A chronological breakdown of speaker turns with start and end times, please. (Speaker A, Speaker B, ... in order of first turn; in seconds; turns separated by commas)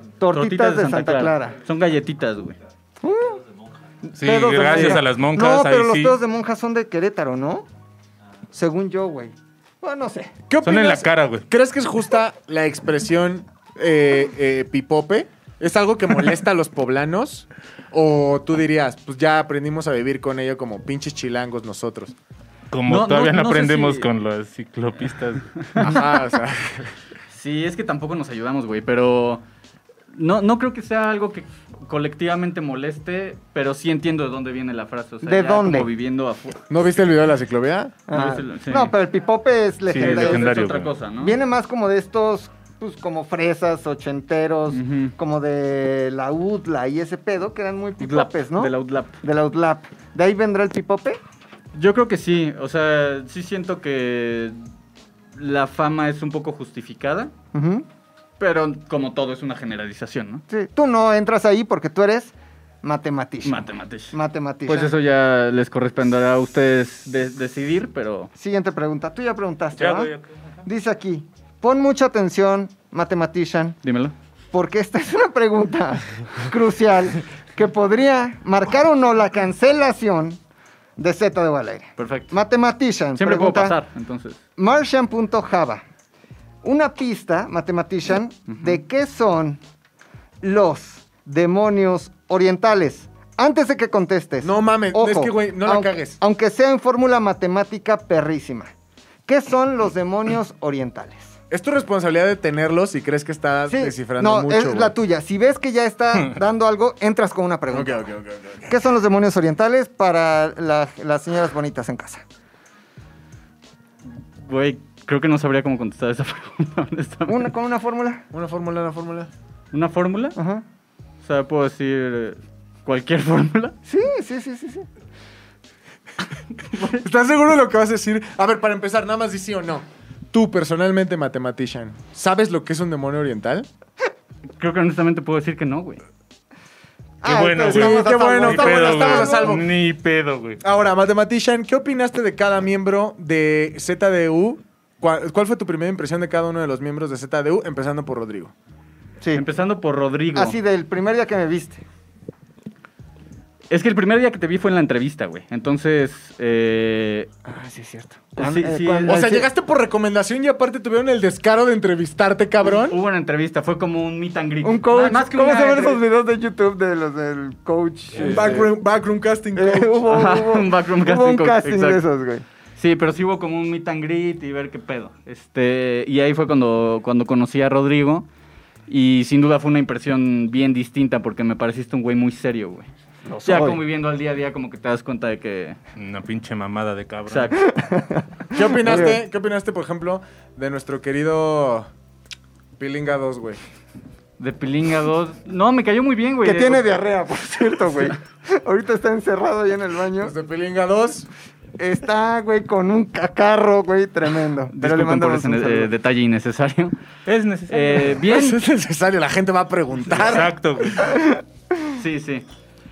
Speaker A: 0.2-1.6, Speaker B: 0.3-2.6, Speaker A: 3.0-3.4, Speaker A: 4.1-7.7, Speaker C: 4.2-6.2, Speaker D: 4.7-5.0, Speaker A: 8.5-10.4, Speaker D: 10.5-22.1, Speaker C: 10.6-11.4, Speaker C: 22.7-25.5, Speaker B: 22.9-24.1, Speaker B: 25.7-26.0, Speaker D: 25.8-26.9, Speaker B: 27.3-29.4, Speaker B: 30.1-36.6, Speaker A: 35.2-35.9, Speaker D: 36.7-38.0, Speaker A: 38.1-40.5, Speaker B: 38.1-38.9, Speaker C: 39.9-40.9, Speaker B: 39.9-41.4, Speaker A: 41.2-51.2, Speaker B: 44.7-45.1, Speaker B: 48.0-49.2, Speaker B: 51.8-54.6, Speaker B: 55.4-57.3, Speaker A: 57.5-57.9, Speaker B: 58.4-60.4, Speaker A: 60.5-64.9, Speaker B: 63.4-64.1, Speaker B: 64.7-68.3, Speaker A: 68.4-70.1, Speaker C: 69.8-70.6, Speaker A: 70.7-73.8, Speaker B: 73.8-74.1, Speaker A: 74.5-80.4, Speaker A: 81.0-83.8, Speaker B: 82.0-82.3, Speaker B: 83.2-84.4, Speaker A: 84.6-85.8, Speaker A: 86.6-89.6, Speaker B: 88.5-88.8, Speaker A: 90.4-98.7, Speaker D: 94.4-96.2, Speaker A: 99.2-101.4, Speaker D: 101.5-104.9, Speaker A: 103.7-108.0, Speaker D: 107.7-108.7, Speaker A: 108.7-112.2, Speaker B: 114.1-117.5, Speaker A: 117.3-118.2, Speaker D: 118.3-119.3, Speaker B: 119.7-120.4, Speaker A: 120.3-120.6, Speaker B: 121.2-123.8, Speaker A: 123.8-124.9, Speaker D: 126.8-133.7, Speaker B: 134.6-136.0, Speaker A: 137.2-139.6, Speaker C: 137.2-140.6, Speaker D: 137.6-139.7, Speaker D: 140.6-148.5, Speaker B: 149.3-150.6, Speaker A: 150.3-151.8, Speaker B: 153.7-157.3, Speaker A: 157.4-159.5, Speaker B: 158.4-159.2, Speaker D: 159.1-163.0, Speaker B: 162.7-166.0, Speaker A: 164.6-168.7, Speaker B: 168.1-168.7, Speaker D: 168.2-170.1, Speaker A: 169.6-172.4, Speaker B: 170.1-172.0, Speaker B: 172.8-178.3, Speaker B: 178.9-182.9, Speaker A: 183.3-183.8, Speaker D: 183.3-183.8, Speaker B: 183.4-185.8, Speaker C: 185.9-187.6, Speaker B: 187.3-187.6, Speaker A: 187.6-189.2, Speaker D: 188.5-191.9, Speaker D: 192.8-193.6, Speaker B: 194.4-196.9, Speaker A: 196.4-200.3, Speaker D: 200.2-201.3, Speaker A: 201.8-205.9, Speaker B: 204.7-206.9, Speaker C: 207.2-208.2, Speaker B: 207.7-208.6, Speaker D: 208.2-210.5, Speaker C: 210.1-211.2, Speaker A: 210.9-211.9, Speaker B: 211.9-212.4